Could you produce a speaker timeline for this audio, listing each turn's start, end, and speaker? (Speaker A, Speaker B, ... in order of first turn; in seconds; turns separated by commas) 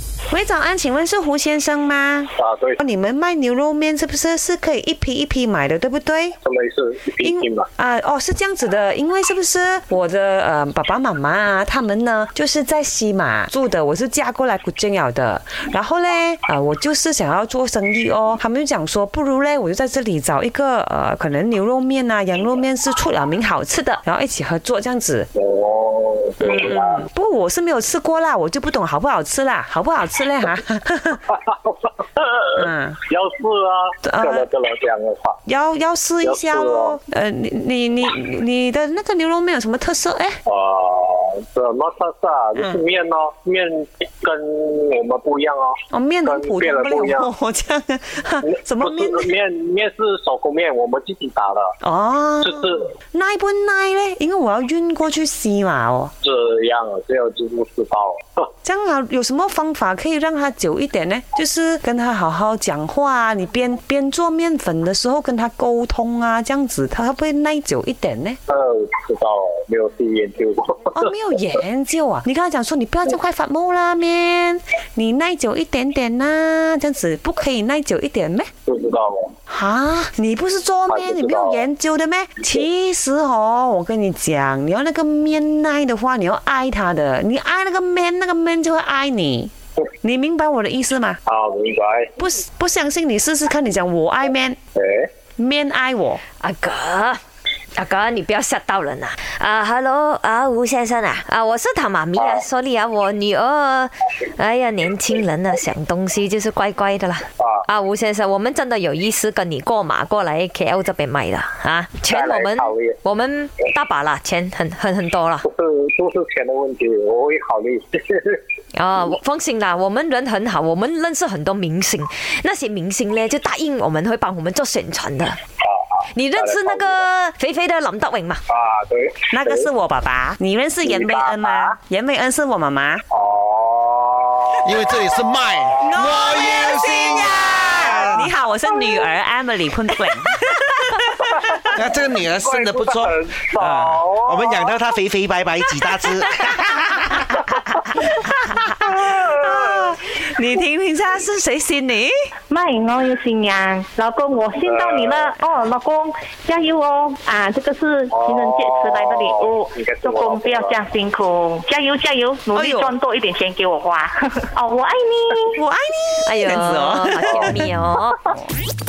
Speaker A: 0.3-6.4, Speaker B: 2.4-2.8, Speaker B: 6.4-7.7, Speaker A: 7.2-25.3, Speaker B: 25.3-27.0, Speaker A: 26.4-31.2, Speaker B: 31.3-32.5, Speaker A: 32.5-33.0, Speaker B: 33.0-35.4, Speaker A: 34.0-34.5, Speaker A: 35.5-40.4, Speaker B: 36.2-37.0, Speaker B: 40.5-47.3, Speaker A: 42.5-42.8, Speaker A: 45.9-49.3, Speaker B: 48.5-51.7, Speaker A: 51.8-56.1, Speaker B: 52.5-52.8, Speaker B: 56.2-58.5, Speaker A: 58.6-68.4, Speaker B: 68.5-71.1, Speaker A: 70.9-78.5, Speaker B: 78.7-79.3, Speaker A: 79.5-91.2, Speaker B: 80.9-81.6, Speaker B: 91.3-92.1, Speaker A: 92.2-94.6, Speaker B: 94.8-95.1, Speaker A: 95.4-96.2, Speaker C: 96.4-97.2, Speaker C: 97.8-115.5, Speaker B: 102.2-102.4, Speaker B: 107.4-107.6, Speaker B: 112.1-113.0, Speaker B: 115.5-118.4, Speaker C: 118.7-125.4, Speaker B: 125.6-127.1, Speaker C: 126.1-128.4, Speaker B: 128.5-129.7, Speaker A: 129.3-133.0, Speaker B: 130.9-131.8, Speaker B: 133.1-135.1, Speaker D: 134.6-138.3, Speaker A: 135.8-141.6, Speaker B: 141.3-144.7, Speaker D: 141.7-147.3, Speaker A: 145.8-146.6, Speaker A: 147.1-147.4, Speaker A: 147.9-152.3, Speaker B: 149.0-149.3, Speaker E: 152.5-165.6, Speaker B: 154.6-155.3, Speaker B: 158.1-160.9, Speaker A: 162.5-162.9, Speaker A: 165.6-167.7, Speaker C: 166.2-168.2